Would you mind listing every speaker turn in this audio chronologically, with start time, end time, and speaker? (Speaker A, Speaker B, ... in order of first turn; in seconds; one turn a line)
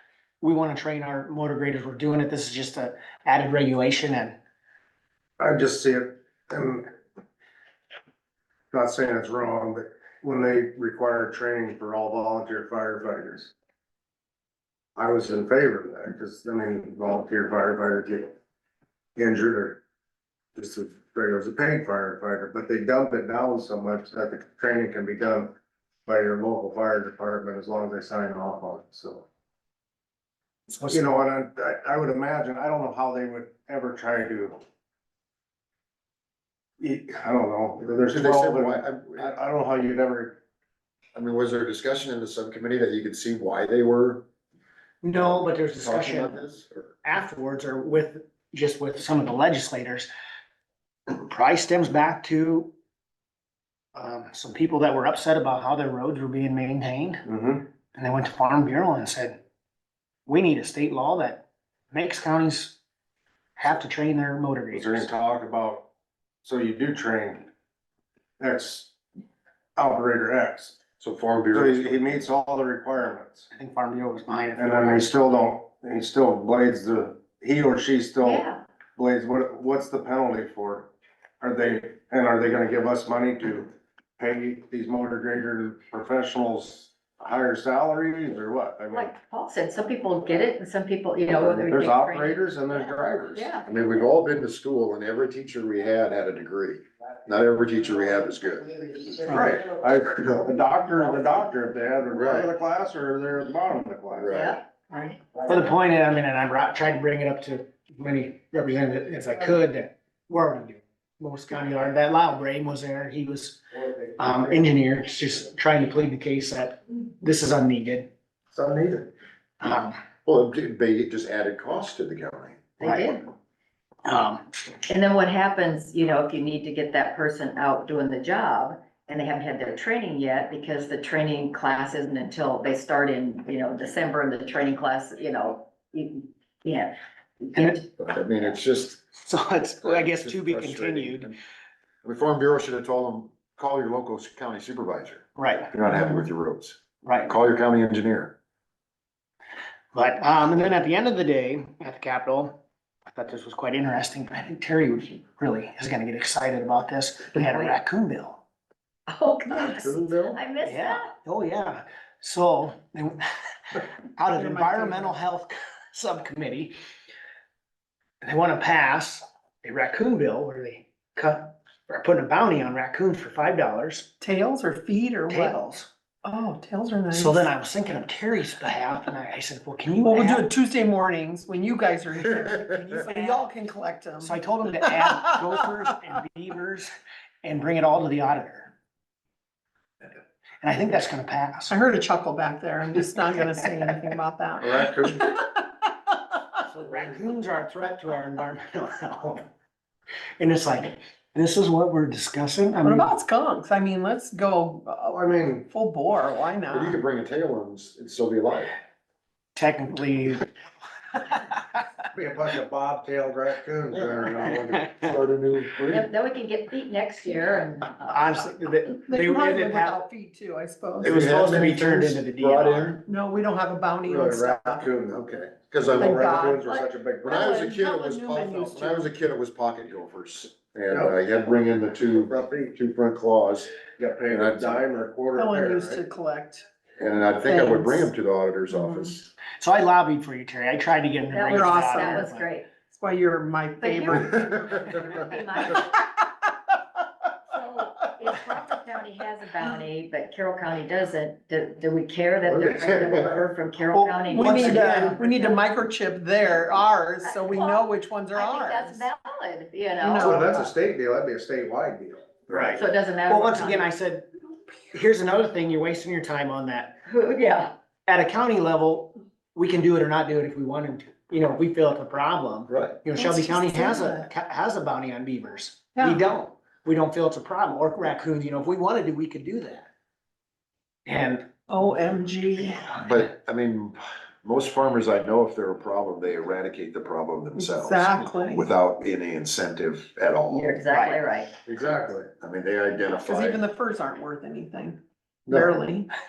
Speaker A: 0.4-4.3
Speaker B: 5.4-6.9
Speaker B: 8.7-13.5
Speaker B: 14.9-18.3
Speaker B: 19.1-19.8
Speaker B: 20.5-25.5
Speaker B: 26.1-29.2
Speaker A: 30.7-31.0
Speaker B: 30.9-34.6
Speaker B: 36.8-40.4
Speaker C: 38.1-39.3
Speaker C: 41.1-44.2
Speaker A: 45.0-46.4
Speaker C: 45.2-46.9
Speaker A: 47.0-50.1
Speaker A: 51.1-52.7
Speaker A: 53.9-57.2
Speaker B: 57.2-57.6
Speaker A: 57.9-59.4
Speaker A: 60.2-62.8
Speaker A: 63.6-65.1
Speaker B: 64.7-65.9
Speaker B: 66.4-67.5
Speaker B: 68.4-68.9
Speaker B: 69.8-70.8
Speaker C: 71.0-72.2
Speaker B: 71.5-73.5
Speaker A: 73.5-75.1
Speaker B: 74.5-78.4
Speaker D: 78.2-78.6
Speaker B: 79.0-80.9
Speaker B: 81.4-89.1
Speaker D: 88.9-92.5
Speaker B: 91.3-93.6
Speaker E: 93.3-93.7
Speaker C: 93.6-99.1
Speaker B: 99.3-104.3
Speaker C: 102.2-102.5
Speaker C: 104.2-104.6
Speaker D: 104.3-104.6
Speaker A: 105.4-113.6
Speaker A: 114.2-118.1
Speaker B: 118.5-119.1
Speaker A: 119.6-120.0
Speaker C: 120.2-122.7
Speaker D: 122.8-123.3
Speaker A: 122.8-123.1
Speaker A: 124.0-124.4
Speaker D: 124.8-137.9
Speaker A: 137.5-137.8
Speaker C: 138.0-139.0
Speaker A: 139.2-141.3
Speaker C: 139.8-141.4
Speaker C: 142.0-148.3
Speaker A: 145.3-145.7
Speaker A: 147.0-147.3
Speaker A: 149.9-152.5
Speaker A: 153.1-158.4
Speaker D: 157.4-157.7
Speaker D: 159.1-161.1
Speaker B: 159.5-160.4
Speaker A: 160.6-163.2
Speaker A: 164.2-166.7
Speaker E: 164.3-165.2
Speaker A: 168.2-174.1
Speaker E: 174.2-175.7
Speaker A: 175.3-175.9
Speaker E: 176.2-177.4
Speaker A: 177.1-180.5
Speaker E: 180.0-185.1
Speaker A: 183.1-183.4
Speaker A: 184.2-186.9
Speaker A: 187.4-188.7
Speaker A: 190.6-191.8
Speaker E: 191.7-195.6
Speaker B: 194.6-195.2
Speaker A: 196.7-199.4
Speaker A: 200.4-203.1
Speaker E: 202.8-207.0
Speaker B: 205.1-205.7
Speaker C: 206.7-208.7
Speaker A: 209.5-210.4
Speaker A: 211.2-211.6
Speaker B: 212.1-214.8
Speaker A: 214.7-215.0
Speaker C: 214.8-216.1
Speaker D: 215.9-218.4
Speaker A: 218.1-220.0
Speaker E: 219.0-221.2
Speaker C: 221.0-223.0
Speaker A: 221.0-223.0
Speaker E: 223.0-224.9
Speaker B: 224.1-225.3
Speaker C: 225.1-226.4
Speaker B: 225.8-227.4
Speaker E: 226.0-229.1
Speaker C: 227.2-233.7
Speaker B: 230.9-231.2
Speaker B: 232.1-232.7
Speaker B: 234.0-236.0
Speaker C: 234.3-234.8
Speaker E: 235.3-236.7
Speaker C: 237.0-239.3
Speaker E: 237.4-238.1
Speaker E: 238.7-239.1
Speaker A: 239.6-242.4
Speaker D: 241.3-242.7
Speaker E: 241.5-245.0
Speaker D: 243.8-246.0
Speaker C: 244.1-244.4
Speaker D: 247.5-255.6
Speaker B: 252.4-253.4
Speaker A: 253.9-255.2
Speaker E: 254.3-259.0
Speaker D: 257.2-260.3
Speaker E: 260.0-260.6
Speaker B: 260.2-262.4
Speaker A: 262.5-264.3
Speaker D: 262.6-263.9
Speaker A: 264.9-267.0
Speaker D: 267.1-267.7
Speaker A: 268.1-279.9
Speaker C: 272.7-273.0
Speaker E: 273.1-274.3
Speaker E: 275.9-276.2
Speaker A: 281.1-281.5
Speaker E: 281.7-283.0
Speaker C: 283.0-290.8
Speaker E: 287.5-288.7
Speaker D: 290.5-291.5
Speaker A: 290.9-291.2
Speaker B: 291.6-292.3
Speaker C: 292.4-293.6
Speaker E: 293.2-296.1